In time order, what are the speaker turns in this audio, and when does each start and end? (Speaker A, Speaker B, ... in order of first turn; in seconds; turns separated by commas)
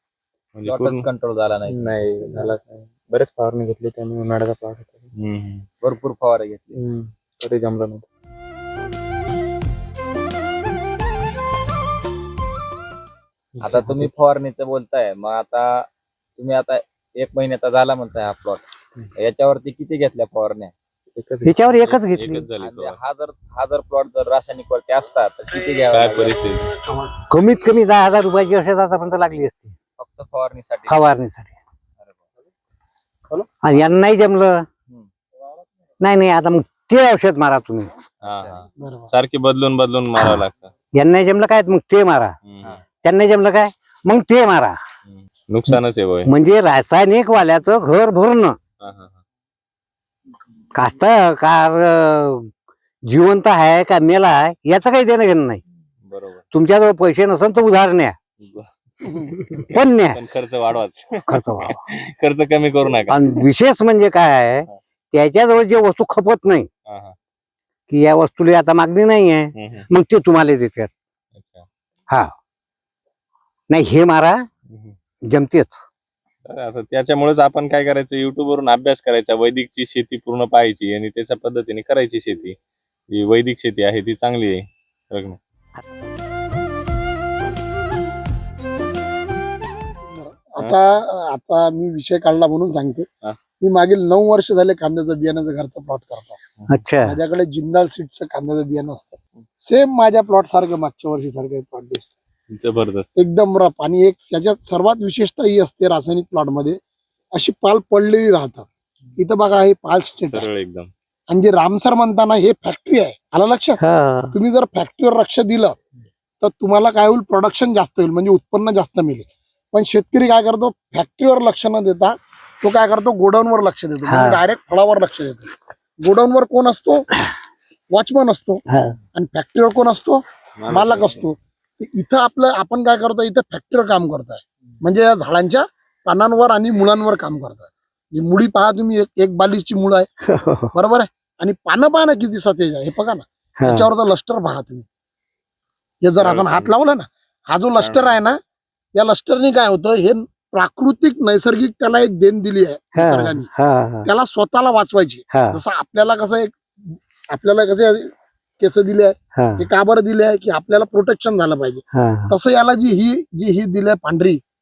Speaker A: 0.5-1.1, Speaker B: 0.7-1.8, Speaker C: 1.7-5.1, Speaker A: 5.2-5.7, Speaker B: 5.8-6.8, Speaker C: 6.7-8.1, Speaker C: 13.6-14.1, Speaker B: 13.6-18.6, Speaker B: 19.2-20.7, Speaker C: 21.1-22.0, Speaker D: 21.4-22.5, Speaker A: 21.8-23.0, Speaker B: 22.6-26.4, Speaker A: 25.9-26.7, Speaker D: 27.3-29.7, Speaker B: 30.0-31.0, Speaker D: 30.9-31.6, Speaker D: 33.6-34.7, Speaker D: 36.0-37.9, Speaker A: 38.2-40.7, Speaker B: 38.3-38.6, Speaker E: 38.8-39.1, Speaker D: 40.1-40.4, Speaker D: 41.0-42.4, Speaker A: 42.5-42.8, Speaker D: 43.0-44.8, Speaker A: 45.1-46.3, Speaker D: 46.3-48.6, Speaker A: 48.8-49.2, Speaker D: 50.7-52.5, Speaker D: 53.1-55.6, Speaker A: 56.0-56.5, Speaker D: 56.5-58.2, Speaker A: 58.4-63.2, Speaker D: 59.7-60.2, Speaker D: 61.3-61.8, Speaker D: 63.1-66.7, Speaker A: 66.9-67.2, Speaker D: 67.9-70.9, Speaker A: 69.6-69.9, Speaker A: 71.3-71.7, Speaker D: 73.7-74.5, Speaker A: 74.7-75.0, Speaker D: 75.3-75.8, Speaker A: 76.5-82.6, Speaker A: 83.1-85.4, Speaker E: 90.1-93.1, Speaker E: 93.6-96.4, Speaker D: 96.7-97.2, Speaker E: 97.0-102.2, Speaker A: 102.5-103.1, Speaker E: 103.2-106.8, Speaker E: 107.3-110.5, Speaker A: 110.2-110.9, Speaker E: 111.3-113.8, Speaker D: 113.8-114.4, Speaker E: 114.3-115.8, Speaker E: 116.4-125.5, Speaker D: 124.1-124.4, Speaker E: 126.0-127.1, Speaker E: 127.9-128.6, Speaker D: 128.7-129.0, Speaker E: 129.1-140.1, Speaker A: 130.6-131.3, Speaker D: 140.3-140.7, Speaker E: 140.7-144.8, Speaker D: 143.6-143.9, Speaker E: 146.0-148.4, Speaker A: 146.2-146.7, Speaker A: 147.8-148.2, Speaker E: 148.9-153.5, Speaker D: 153.0-154.1, Speaker E: 154.1-156.6, Speaker D: 155.3-155.6, Speaker E: 157.3-158.1, Speaker E: 158.6-164.4, Speaker D: 159.4-159.7, Speaker D: 161.9-162.3